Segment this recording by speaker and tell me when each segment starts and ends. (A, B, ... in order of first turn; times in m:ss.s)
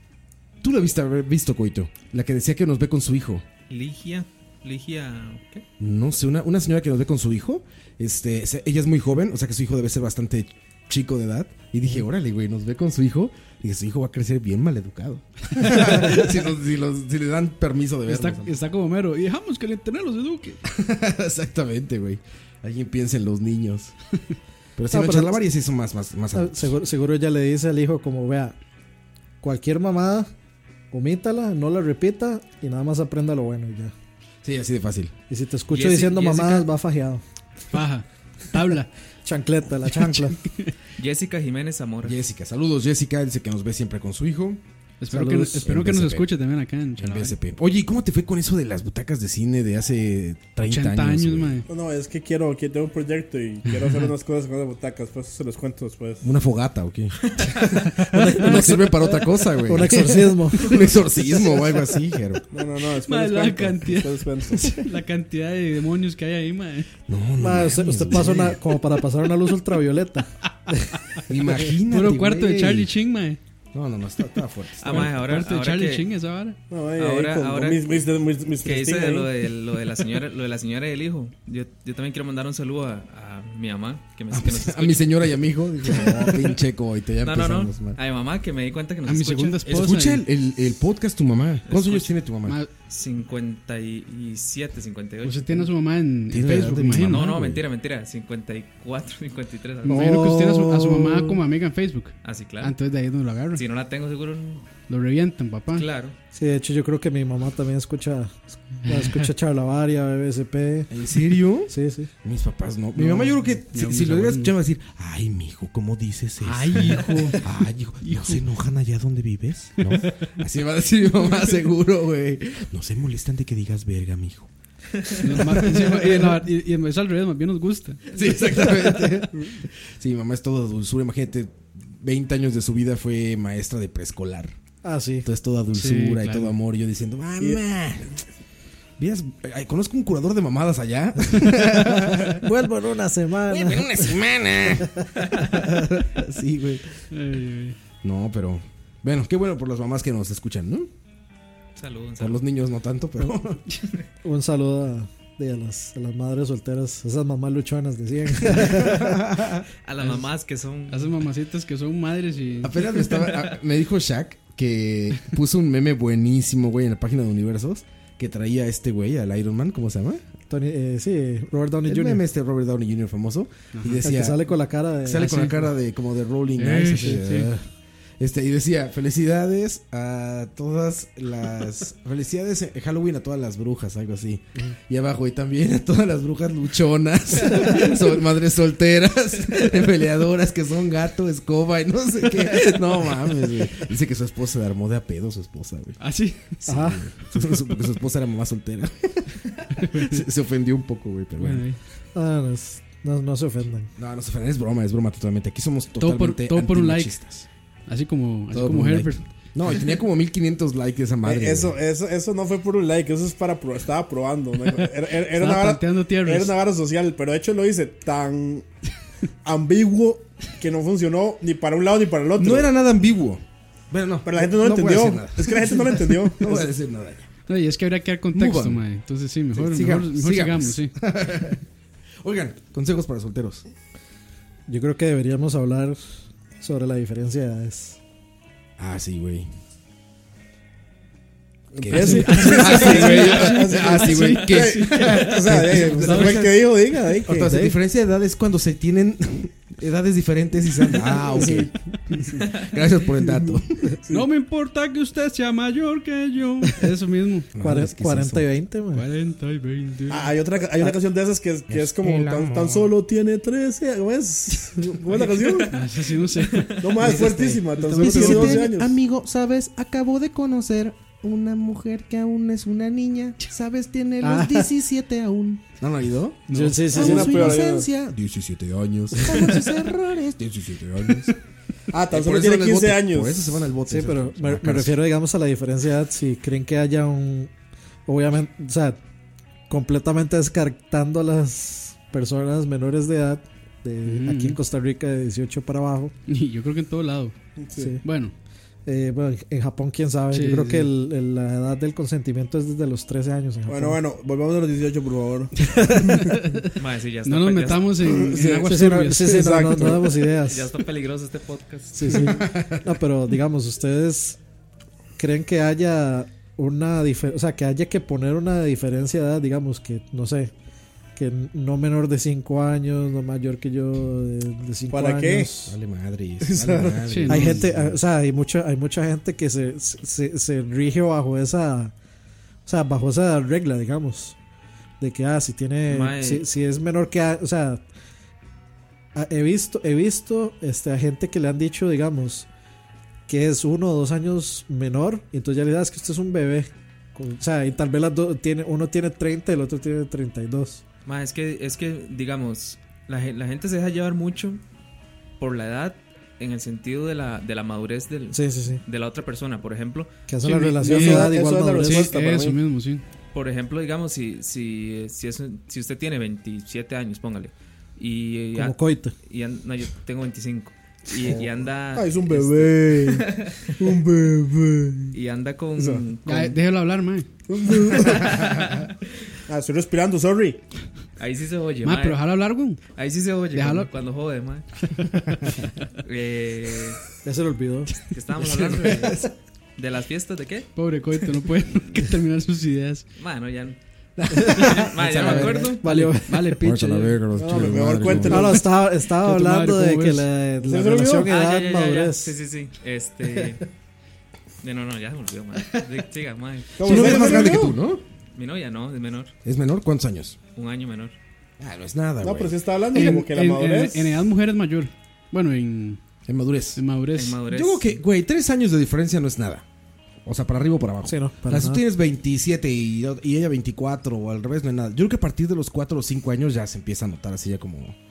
0:00.6-0:03.4 A
0:03.7-0:05.6 B
0:05.8-0:18.5 A
0:18.1-0:20.6 C
0:20.8-0:24.0 A
0:24.8-0:26.8 A
0:24.9-0:25.4 D
0:26.3-0:28.6 D
0:29.4-0:30.3 D
0:30.9-0:33.9 D
0:34.4-0:35.1 A
0:35.3-0:37.2 D
0:35.7-0:36.7 B
0:37.7-0:38.9 C
0:39.2-0:40.4 D
0:39.9-0:40.7 C
0:41.0-0:42.2 B
0:42.0-0:44.6 A
0:45.0-0:47.4 C
0:45.1-0:45.6 D
0:45.6-0:46.3 A
0:47.0-0:51.6 A
0:50.7-0:51.7 C
0:51.7-0:56.3 E
0:56.2-1:02.4 A
0:58.0-0:59.0 D
0:59.6-1:00.8 D
1:02.5-1:04.8 E
1:03.0-1:06.9 C
1:07.1-1:08.6 A
1:07.4-1:11.0 D
1:11.3-1:12.9 A
1:11.9-1:13.4 C
1:13.7-1:15.2 A
1:14.8-1:16.0 B
1:14.9-1:16.6 C
1:16.7-1:19.3 E
1:17.0-1:18.1 B
1:18.6-1:25.3 B
1:24.3-1:28.0 A
1:27.2-1:29.6 B
1:29.0-1:30.2 C
1:29.7-1:32.6 A
1:31.7-1:32.2 B
1:32.9-1:35.7 B
1:35.2-1:37.3 C
1:36.3-1:37.6 A
1:37.0-1:40.2 B
1:39.8-1:43.6 C
1:39.9-1:41.4 D
1:42.2-1:42.8 B
1:43.6-1:44.7 B
1:44.9-1:45.9 C
1:45.7-1:46.2 B
1:46.3-1:50.9 D
1:48.9-1:49.2 C
1:50.9-2:04.5 A
1:51.6-1:52.1 D
1:53.0-1:54.5 C
1:56.4-1:57.5 C
1:58.0-1:58.4 C
2:05.2-2:08.2 C
2:05.4-2:06.2 A
2:08.1-2:14.5 A
2:14.8-2:15.3 D
2:15.2-2:18.1 A
2:15.7-2:16.5 C
2:19.0-2:22.4 A
2:22.4-2:24.2 D
2:23.5-2:27.0 A
2:27.1-2:27.8 C
2:28.0-2:30.9 A
2:31.8-2:32.4 B
2:32.2-2:33.6 A
2:34.2-2:39.2 D
2:38.5-2:39.6 A
2:39.8-2:41.2 B
2:40.0-2:40.3 C
2:40.9-2:42.9 C
2:42.6-2:50.2 A
2:50.5-2:52.2 D
2:51.9-2:54.5 A
2:53.8-2:54.0 C
2:54.0-2:55.5 D
2:55.1-2:57.5 A
2:55.2-2:55.6 C
2:56.6-2:57.5 C
2:57.0-2:57.3 D
2:58.2-3:16.0 A
3:16.0-3:16.5 C
3:16.6-3:21.6 A
3:16.7-3:17.0 D
3:19.8-3:20.2 C
3:21.4-3:21.8 C
3:22.2-3:23.9 D
3:24.0-3:27.4 A
3:26.0-3:29.2 C
3:28.5-3:31.8 A
3:31.2-3:38.7 E
3:35.3-3:36.6 C
3:39.4-3:42.7 E
3:42.4-3:47.3 A
3:44.2-3:46.7 E
3:47.5-3:50.9 C
3:48.3-3:48.8 A
3:49.5-3:51.6 A
3:52.2-3:53.6 A
3:54.7-3:56.0 D
3:56.6-3:58.0 D
3:58.8-3:59.5 A
4:01.7-4:07.5 E
4:01.8-4:06.6 A
4:01.9-4:06.5 C
4:07.2-4:13.9 A
4:07.3-4:07.8 D
4:12.3-4:12.6 E
4:14.1-4:17.5 C
4:17.6-4:18.5 A
4:17.6-4:19.0 D
4:18.9-4:20.3 C
4:20.1-4:25.8 E
4:21.7-4:22.9 A
4:25.7-4:27.1 C
4:26.8-4:29.0 E
4:27.0-4:41.4 A
4:27.2-4:27.6 D
4:27.9-4:28.6 C
4:34.2-4:34.7 D
4:36.5-4:36.9 C
4:36.5-4:37.5 D
4:36.9-4:37.9 E
4:41.9-4:43.6 E
4:42.1-4:45.0 A
4:43.9-4:47.5 D
4:48.1-4:49.0 D
4:49.7-4:56.1 D
4:54.0-4:54.6 C
4:56.3-4:57.4 C
4:57.6-4:57.9 E
4:57.8-4:58.0 D
4:58.0-4:58.3 C
4:58.9-5:04.0 D
5:00.3-5:00.9 C
5:03.7-5:06.3 E
5:05.8-5:09.7 C
5:05.8-5:06.2 D
5:06.8-5:08.1 B
5:08.0-5:10.2 E
5:08.6-5:10.7 D
5:10.5-5:12.3 B
5:11.9-5:14.4 D
5:12.3-5:12.8 A
5:15.2-5:20.5 D
5:21.2-5:25.8 D
5:24.9-5:25.5 E
5:25.7-5:28.0 A
5:26.4-5:27.0 E
5:27.1-5:27.6 C
5:27.2-5:31.9 D
5:32.7-5:34.4 D
5:35.0-5:37.8 D
5:35.9-5:36.4 B
5:39.2-5:42.5 D
5:43.3-5:50.8 D
5:51.1-5:54.6 B
5:55.4-6:00.1 B
5:58.3-5:58.8 D
6:00.3-6:02.1 D
6:00.4-6:03.0 C
6:00.8-6:02.6 E
6:03.3-6:13.8 B
6:08.6-6:09.1 D
6:11.2-6:15.2 E
6:15.1-6:16.6 B
6:15.8-6:16.0 E
6:16.2-6:17.3 C
6:17.5-6:18.8 E
6:18.0-6:18.8 B
6:19.5-6:20.6 E
6:21.2-6:22.2 B
6:21.8-6:22.8 C
6:23.0-6:24.7 B
6:23.5-6:23.9 C
6:26.0-6:27.0 B
6:27.2-6:27.9 D
6:28.1-6:29.2 B
6:28.4-6:29.3 A
6:29.8-6:30.7 B
6:30.8-6:33.0 C
6:33.2-6:33.8 B
6:34.2-6:35.8 A
6:34.3-6:34.6 D
6:34.6-6:35.8 B
6:34.8-6:37.3 C
6:35.6-6:36.6 D
6:36.6-6:38.6 A
6:37.3-6:38.6 E
6:38.2-6:42.3 D
6:39.0-6:40.3 C
6:40.6-6:41.3 E
6:41.3-6:43.6 B
6:44.6-6:47.4 B
6:46.8-6:47.7 E
6:46.8-6:48.0 A
6:48.4-6:49.3 B
6:49.4-6:50.4 A
6:50.6-6:51.1 B
6:51.6-6:52.6 A
6:52.2-6:54.3 E
6:52.9-6:56.0 C
6:56.3-6:56.8 A
6:56.8-6:57.4 C
6:57.1-6:58.0 B
6:57.5-6:59.6 A
7:00.2-7:08.0 A
7:01.0-7:01.8 D